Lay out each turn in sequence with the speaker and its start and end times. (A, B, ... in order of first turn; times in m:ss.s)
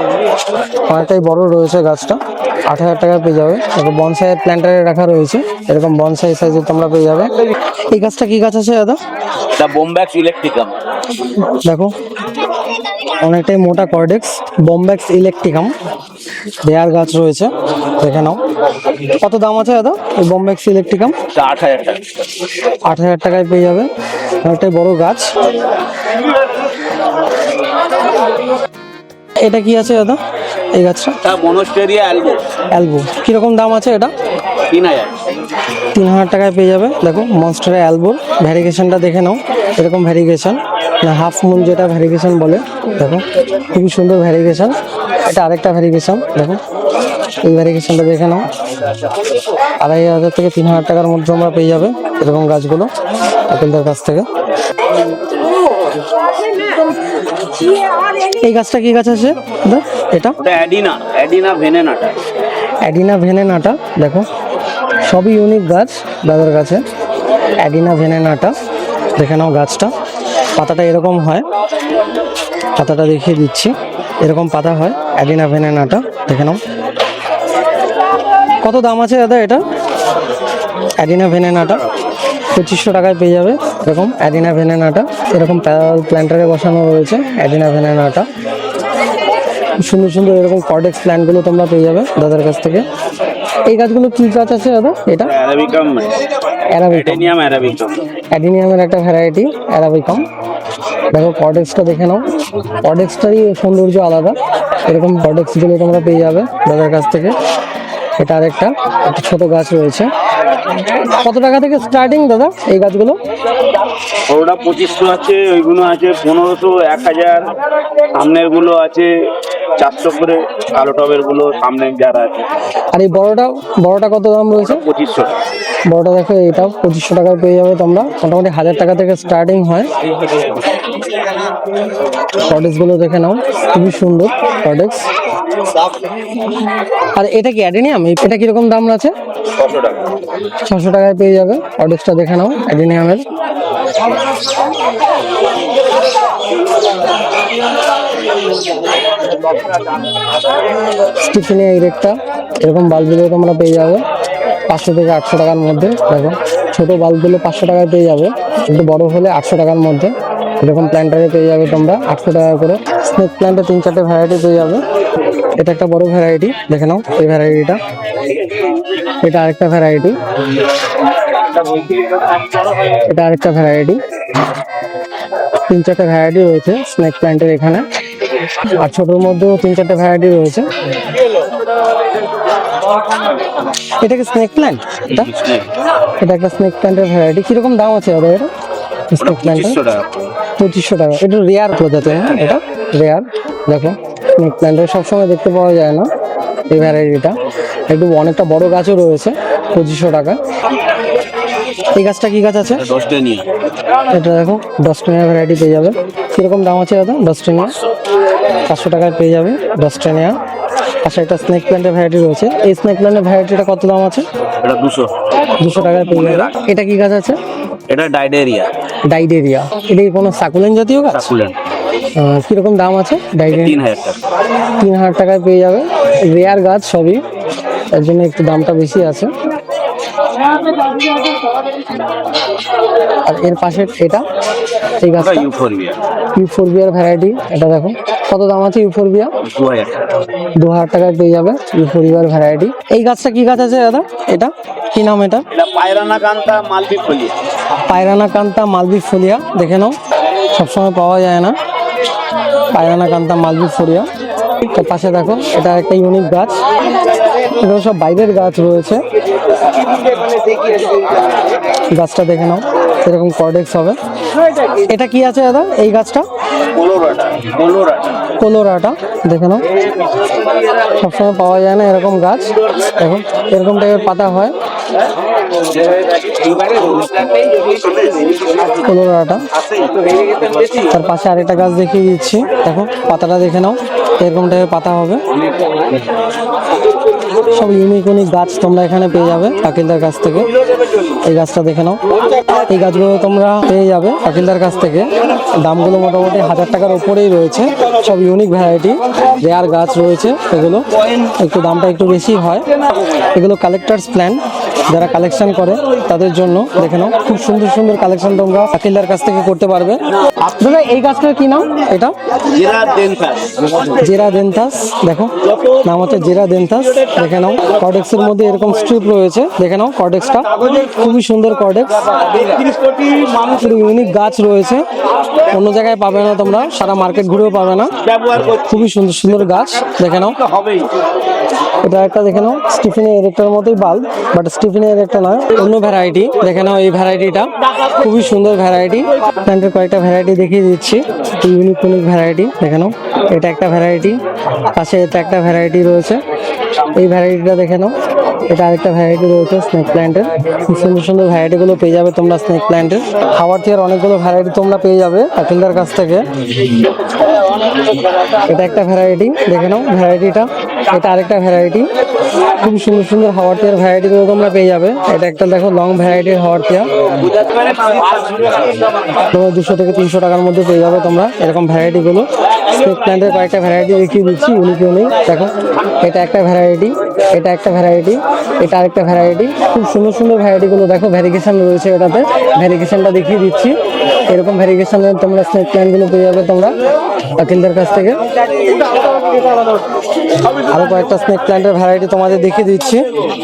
0:00.9-0:07.3 A
0:07.9-0:09.0 A
0:09.6-0:10.8 B
0:11.4-0:11.9 A
0:13.2-0:15.7 A
0:16.6-0:18.4 A
0:19.1-0:21.2 A
0:21.3-0:22.3 B
0:22.8-0:23.9 A
0:24.4-0:25.3 A
0:29.4-0:30.2 A
0:30.7-0:31.2 A
0:31.2-0:32.4 B
0:32.7-0:34.1 A
0:34.7-0:35.1 B
0:35.9-0:46.6 A
0:47.4-0:48.5 A
0:49.8-0:52.9 A
0:53.5-0:54.3 A
0:58.3-1:00.4 A
1:00.4-1:02.2 B
1:02.8-1:04.3 A
1:05.0-1:06.8 A
1:07.6-1:08.5 A
1:09.2-1:09.9 A
1:10.6-1:11.4 A
1:12.8-1:16.6 A
1:18.6-1:19.6 A
1:21.0-1:21.9 A
1:22.5-1:28.3 A
1:29.8-1:32.9 A
1:33.7-1:35.3 A
1:35.3-1:36.2 B
1:36.7-1:37.3 A
1:36.8-1:38.1 B
1:38.3-1:40.3 A
1:41.1-1:47.4 A
1:48.2-1:50.1 A
1:51.0-1:53.2 A
1:54.3-1:57.5 B
1:58.1-1:59.2 B
1:59.8-2:02.5 B
2:02.9-2:04.8 A
2:04.6-2:05.3 B
2:05.9-2:09.9 A
2:12.4-2:15.1 A
2:17.2-2:19.1 A
2:19.6-2:20.0 B
2:20.7-2:23.2 A
2:31.2-2:34.0 A
2:34.7-2:44.8 A
2:45.6-2:47.8 A
2:49.2-2:50.2 A
2:51.6-2:52.0 B
2:53.0-2:54.0 A
2:55.7-2:57.9 A
2:58.6-3:00.7 A
3:04.0-3:05.3 A
3:05.1-3:05.7 B
3:06.2-3:08.5 A
3:09.1-3:09.8 A
3:09.2-3:10.1 B
3:10.6-3:16.1 A
3:16.7-3:17.4 A
3:17.9-3:20.4 A
3:21.9-3:22.8 A
3:22.8-3:23.5 B
3:24.1-3:27.8 A
3:28.7-3:30.4 A
3:31.0-3:34.3 A
3:34.6-3:35.1 B
3:35.6-3:37.4 A
3:35.7-3:36.6 B
3:37.9-3:38.7 B
3:39.1-3:41.3 A
3:41.1-3:41.6 B
3:42.2-3:43.8 A
3:43.5-3:44.2 B
3:44.8-3:47.2 A
3:47.9-3:49.3 A
3:53.2-3:54.3 A
3:55.0-3:55.5 A
3:55.2-3:56.0 B
3:56.3-3:59.3 A
3:59.4-4:00.1 B
4:00.6-4:05.5 A
4:05.5-4:07.4 B
4:07.9-4:10.0 A
4:10.5-4:11.6 A
4:12.7-4:14.1 A
4:14.7-4:16.6 A
4:17.4-4:19.0 A
4:20.0-4:21.2 B
4:21.9-4:24.0 A
4:24.8-4:26.3 A
4:26.7-4:28.2 B
4:28.4-4:29.7 A
4:30.9-4:34.6 A
4:35.6-4:38.8 B
4:38.8-4:39.4 A
4:39.6-4:40.9 B
4:40.8-4:45.2 A
4:45.6-4:45.9 B
4:47.4-4:50.5 A
4:51.2-5:02.7 A
5:03.3-5:12.2 A
5:12.5-5:14.0 B
5:14.0-5:22.0 A
5:15.5-5:16.0 B
5:22.0-5:23.6 B
5:23.5-5:24.9 A
5:25.5-5:27.9 A
5:28.0-5:28.9 B
5:28.7-5:30.4 A
5:29.5-5:30.9 B
5:31.8-5:46.2 A
5:47.0-5:48.0 A
5:48.5-5:56.3 A
5:58.4-6:01.9 A
6:02.6-6:06.9 A
6:07.2-6:08.6 B
6:09.3-6:26.8 A
6:27.4-6:28.2 A
6:30.6-6:33.1 A